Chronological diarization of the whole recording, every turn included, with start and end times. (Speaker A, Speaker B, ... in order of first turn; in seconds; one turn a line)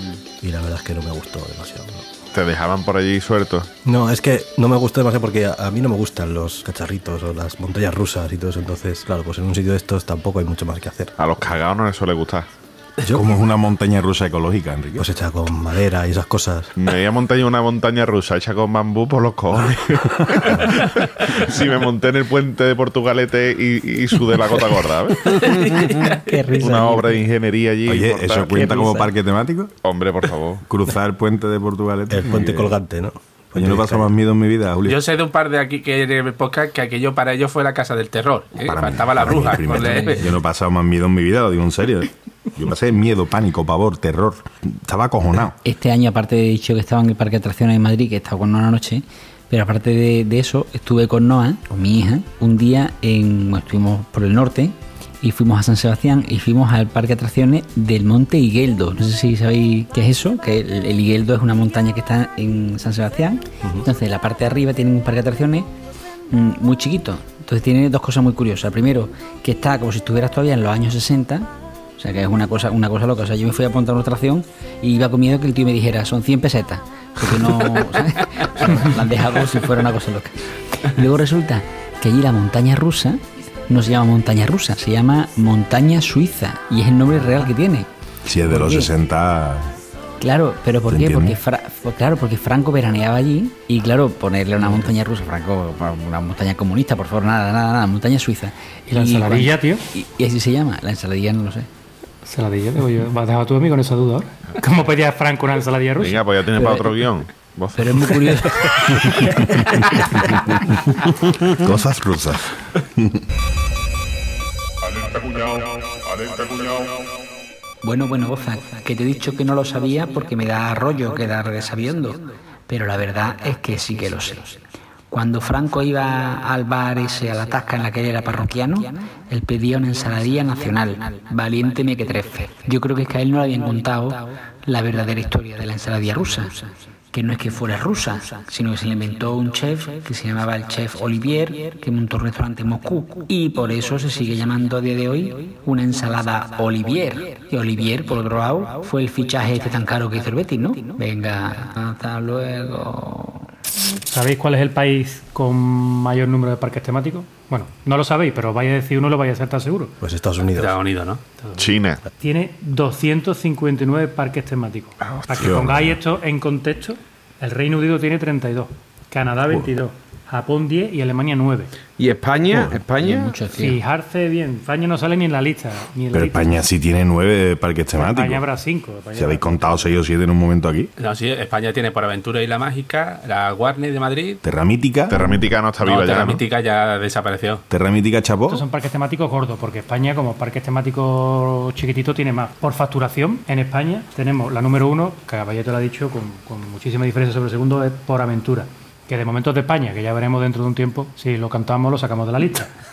Speaker A: 0.4-2.1
Speaker B: 2.3-3.7
Speaker A: 3.9-11.1
Speaker B: 11.2-12.5
Speaker C: 13.1-15.1
Speaker A: 15.0-16.7
Speaker B: 16.8-25.7
Speaker C: 20.1-20.5
Speaker D: 25.5-26.2
Speaker E: 26.0-27.2
Speaker B: 26.6-28.8
Speaker C: 27.9-29.7
Speaker E: 28.6-29.1
Speaker B: 29.8-30.6
Speaker C: 30.7-32.8
Speaker A: 32.1-34.1
Speaker C: 33.6-35.0
Speaker F: 34.9-40.3
Speaker C: 38.6-45.5
Speaker E: 39.8-40.3
Speaker E: 45.6-65.7
Speaker E: 66.3-87.9
Speaker C: 88.2-89.8
Speaker E: 88.4-88.9
Speaker E: 90.2-101.7
Speaker C: 90.9-91.4
Speaker C: 94.6-94.9
Speaker G: 98.9-99.9
Speaker G: 102.2-106.2
Speaker B: 106.0-108.3
Speaker E: 106.6-106.9
Speaker E: 107.8-110.4
Speaker C: 111.5-113.2
Speaker E: 117.8-124.6
Speaker E: 125.1-153.5
Speaker G: 154.1-159.9
Speaker A: 160.0-160.8
Speaker F: 160.5-161.2
Speaker G: 161.4-171.7
Speaker B: 161.6-162.0
Speaker C: 165.1-165.9
Speaker D: 172.0-173.4
Speaker E: 173.0-173.8
Speaker G: 173.6-176.6
Speaker C: 176.1-178.4
Speaker G: 178.0-179.9
Speaker C: 179.2-180.9
Speaker F: 181.0-184.4
Speaker C: 184.4-185.3
Speaker B: 185.1-186.4
Speaker F: 185.8-187.6
Speaker C: 187.7-188.6
Speaker G: 188.5-202.7